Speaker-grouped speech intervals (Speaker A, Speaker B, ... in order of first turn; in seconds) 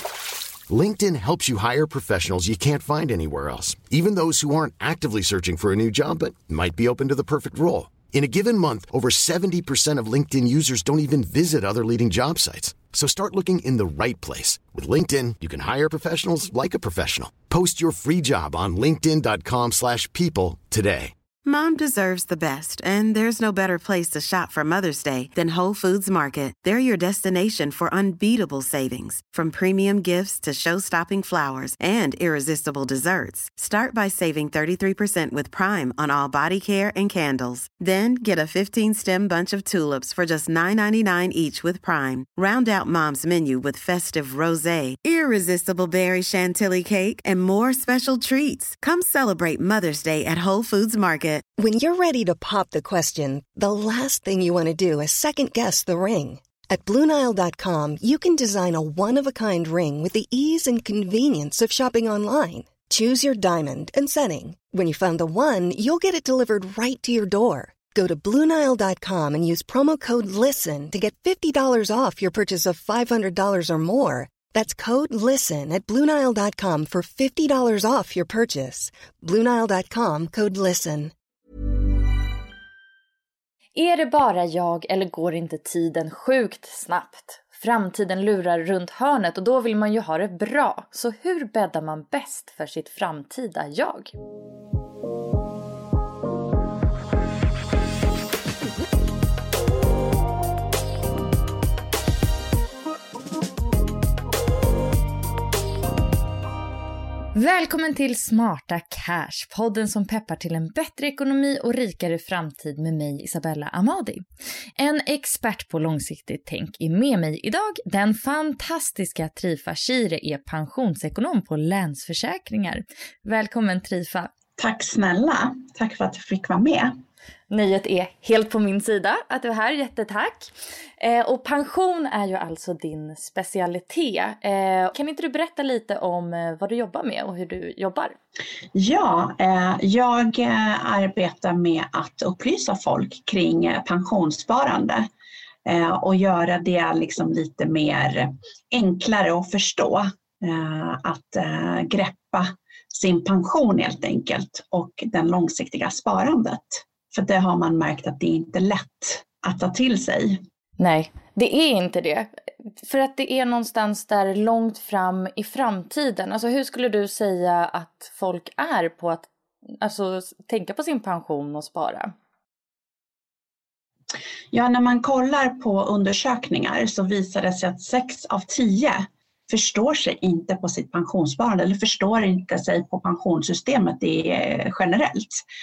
Speaker A: 0.7-21.1
Speaker B: 21.4-51.4
Speaker C: 51.6-81.1
Speaker D: 83.7-94.1, 107.3-114.2, 114.8-124.3, 127.5-138.2, 160.8-169.3, 169.8-172.1
Speaker E: 124.6-126.9, 138.7-145.1, 145.6-160.4, 174.5-185.4